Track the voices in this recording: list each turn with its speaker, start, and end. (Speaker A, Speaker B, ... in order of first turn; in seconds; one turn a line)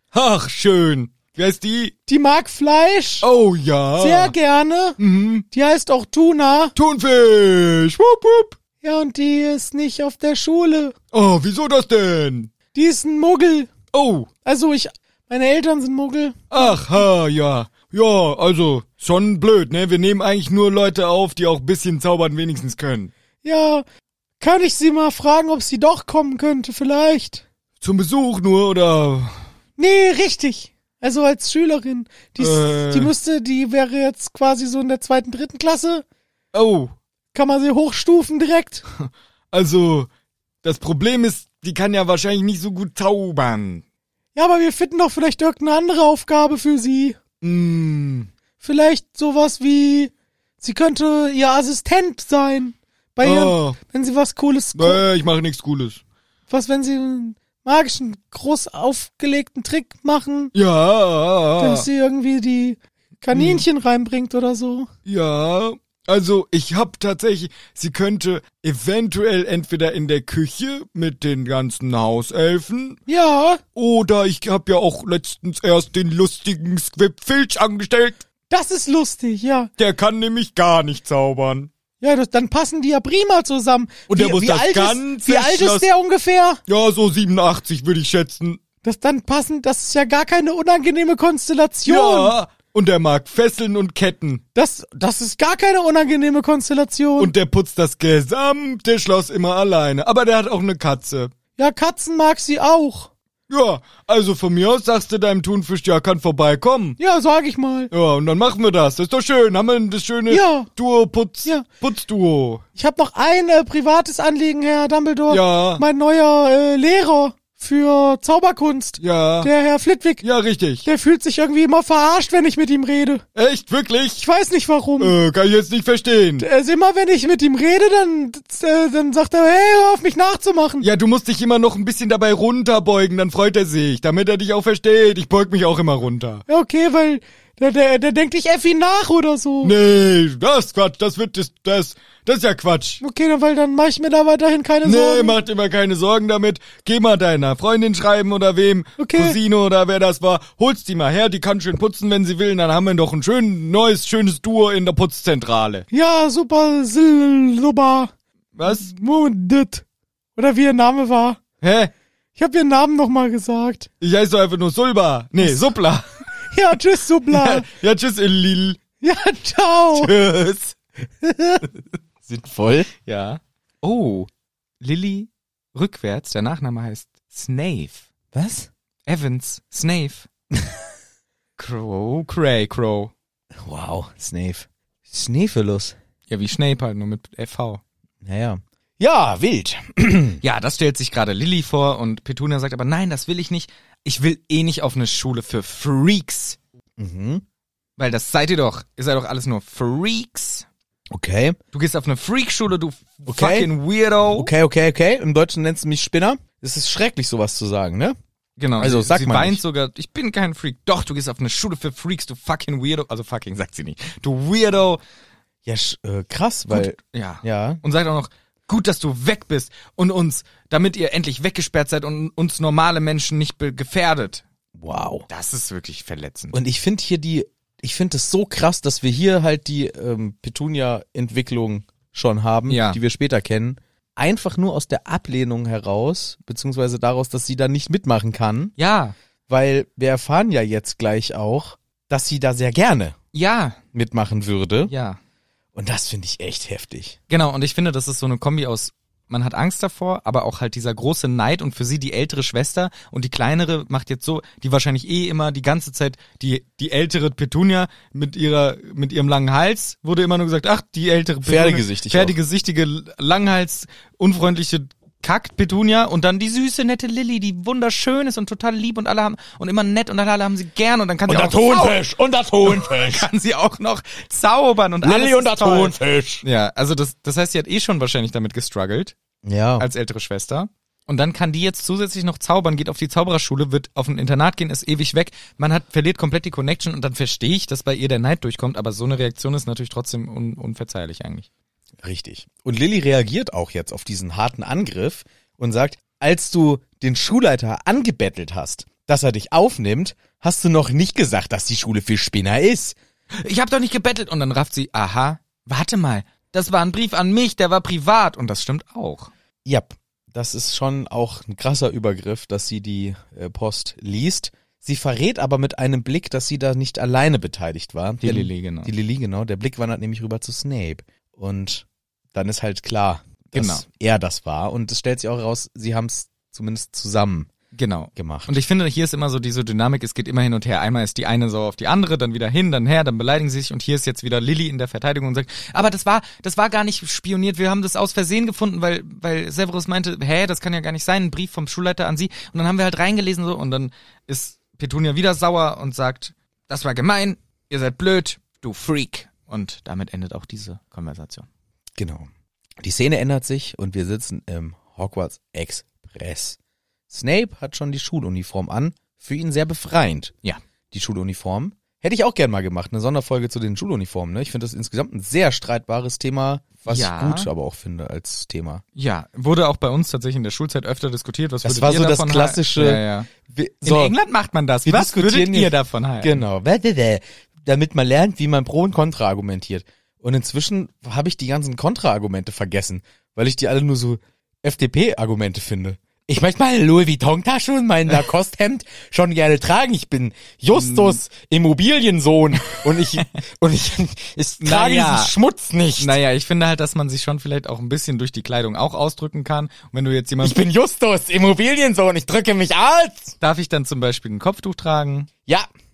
Speaker A: 0.1-1.9
Speaker B: 2.1-3.3
Speaker A: 3.2-4.3
Speaker B: 4.0-5.0
Speaker A: 5.0-5.5
Speaker B: 5.5-6.7
Speaker A: 6.8-8.6
Speaker B: 8.8-10.9
Speaker A: 11.1-12.5
Speaker B: 12.7-13.7
Speaker A: 13.9-14.3
Speaker B: 14.4-17.0
Speaker A: 16.5-23.1
Speaker B: 23.4-23.8
Speaker B: 24.4-27.4
Speaker A: 27.8-29.4
Speaker B: 29.8-36.0
Speaker A: 32.4-33.1
Speaker A: 36.5-36.9
Speaker B: 37.3-38.8
Speaker A: 39.1-40.1
Speaker A: 40.6-43.8
Speaker B: 44.3-47.2
Speaker A: 47.4-48.3
Speaker B: 48.6-55.0
Speaker A: 53.2-53.8
Speaker A: 54.7-56.0
Speaker B: 56.5-60.5
Speaker A: 60.5-61.9
Speaker B: 61.5-64.9
Speaker A: 63.3-63.6
Speaker A: 65.1-73.0
Speaker B: 73.1-73.6
Speaker A: 73.7-78.2
Speaker B: 78.5-79.7
Speaker A: 79.8-81.7
Speaker B: 82.0-86.6
Speaker A: 84.1-85.8
Speaker A: 86.7-88.6
Speaker B: 88.8-92.4
Speaker A: 91.9-94.4
Speaker B: 94.5-97.3
Speaker A: 97.2-101.3
Speaker B: 101.6-103.1
Speaker A: 103.5-107.0
Speaker B: 107.0-107.9
Speaker A: 107.9-112.6
Speaker B: 110.3-110.7
Speaker B: 112.8-120.2
Speaker A: 115.3-115.8
Speaker A: 119.0-119.5
Speaker A: 120.2-120.8
Speaker B: 120.8-123.2
Speaker A: 123.4-124.2
Speaker B: 124.2-125.2
Speaker A: 125.0-126.4
Speaker B: 126.4-130.9
Speaker A: 130.8-136.4
Speaker B: 136.5-139.8
Speaker A: 139.6-143.0
Speaker B: 143.0-145.4
Speaker A: 144.8-155.9
Speaker B: 149.0-149.4
Speaker B: 155.9-158.1
Speaker A: 158.6-158.9
Speaker B: 158.6-159.8
Speaker B: 160.4-161.4
Speaker A: 161.6-161.9
Speaker B: 162.4-163.9
Speaker A: 164.0-166.1
Speaker B: 166.5-167.7
Speaker A: 167.3-168.8
Speaker B: 169.0-170.1
Speaker A: 169.9-170.8
Speaker B: 171.2-171.7
Speaker B: 172.2-172.9
Speaker A: 173.1-174.3
Speaker A: 174.8-178.1
Speaker B: 178.3-178.7
Speaker A: 179.1-180.3
Speaker A: 181.6-183.1
Speaker B: 183.6-185.9
Speaker A: 186.3-187.8
Speaker B: 188.2-190.4
Speaker A: 190.4-196.6
Speaker B: 197.0-197.4
Speaker A: 198.0-200.7
Speaker B: 201.1-201.6
Speaker A: 201.7-204.5
Speaker B: 203.3-203.7
Speaker B: 204.3-208.2
Speaker A: 208.6-215.0
Speaker B: 208.8-209.6
Speaker B: 215.6-217.8
Speaker A: 216.7-224.4
Speaker B: 224.8-225.3
Speaker A: 225.3-226.6
Speaker B: 226.5-238.7
Speaker A: 232.7-233.0
Speaker A: 238.8-239.1
Speaker B: 239.5-243.2
Speaker A: 243.3-243.8
Speaker B: 243.9-244.9
Speaker A: 244.9-245.2
Speaker B: 245.7-247.2
Speaker A: 247.3-272.0
Speaker B: 261.4-262.4
Speaker B: 271.3-273.2
Speaker A: 272.6-279.1
Speaker B: 275.0-276.4
Speaker B: 279.4-279.9
Speaker A: 279.8-291.5
Speaker B: 292.0-302.9
Speaker A: 303.3-309.3
Speaker B: 309.6-327.5
Speaker A: 318.2-318.9
Speaker A: 323.6-323.8
Speaker A: 327.7-351.5
Speaker B: 328.1-328.6
Speaker B: 352.0-352.3
Speaker B: 352.8-356.6
Speaker B: 357.1-360.3
Speaker B: 360.9-368.8
Speaker A: 366.9-367.5
Speaker A: 368.9-373.3
Speaker B: 371.6-374.2
Speaker A: 373.8-376.4
Speaker B: 374.8-396.2
Speaker A: 390.7-391.2
Speaker A: 392.7-393.2
Speaker A: 394.6-395.3
Speaker A: 396.0-400.6
Speaker B: 400.4-403.4
Speaker A: 403.4-405.3